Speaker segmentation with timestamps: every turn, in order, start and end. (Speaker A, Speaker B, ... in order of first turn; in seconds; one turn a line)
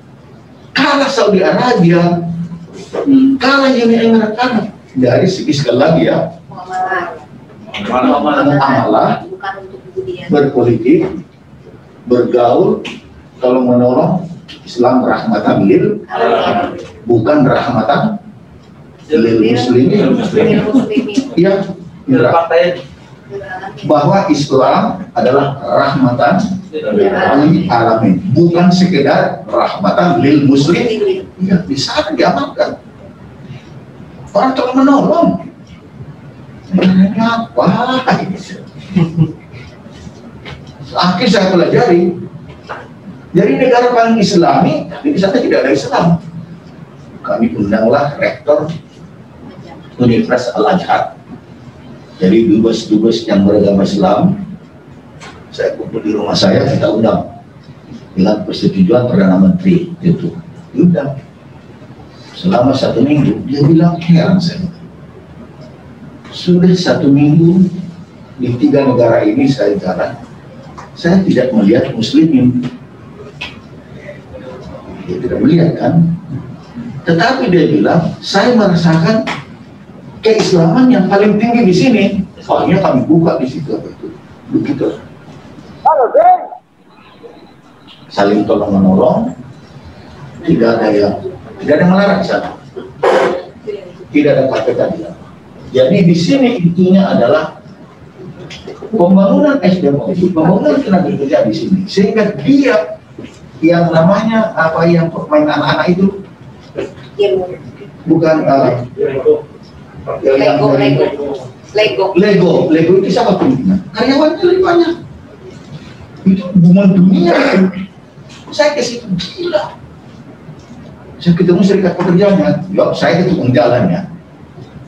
Speaker A: 0.8-2.3
Speaker A: 3.3-6.3
Speaker B: 6.5-7.2
Speaker C: 8.0-8.7
Speaker A: 8.0-9.2
Speaker B: 8.0-10.4
Speaker A: 10.3-11.1
Speaker A: 12.1-12.9
Speaker A: 13.4-18.2
Speaker B: 16.1-16.8
Speaker A: 19.1-20.6
Speaker B: 19.2-21.3
Speaker C: 20.1-20.5
Speaker A: 21.3-22.4
Speaker C: 22.1-22.8
Speaker B: 23.3-24.0
Speaker A: 23.8-32.8
Speaker C: 26.8-27.1
Speaker B: 30.8-31.3
Speaker A: 34.3-35.5
Speaker A: 36.7-38.7
Speaker A: 40.9-42.1
Speaker A: 43.3-46.2
Speaker A: 47.2-48.7
Speaker A: 50.0-51.1
Speaker A: 52.2-54.4
Speaker A: 55.5-57.3
Speaker A: 58.1-61.1
Speaker A: 62.3-64.8
Speaker A: 66.3-67.8
Speaker A: 68.4-70.2
Speaker A: 71.0-72.7
Speaker A: 74.9-76.2
Speaker A: 77.1-79.2
Speaker A: 80.2-85.0
Speaker A: 88.1-89.3
Speaker A: 90.4-92.6
Speaker A: 94.1-95.2
Speaker A: 95.7-97.5
Speaker A: 98.9-102.9
Speaker A: 103.6-106.2
Speaker B: 107.2-107.9
Speaker A: 108.0-108.9
Speaker A: 110.2-111.1
Speaker B: 110.3-111.2
Speaker B: 111.7-112.2
Speaker A: 112.1-115.0
Speaker A: 116.2-117.8
Speaker A: 118.5-119.7
Speaker A: 121.2-124.0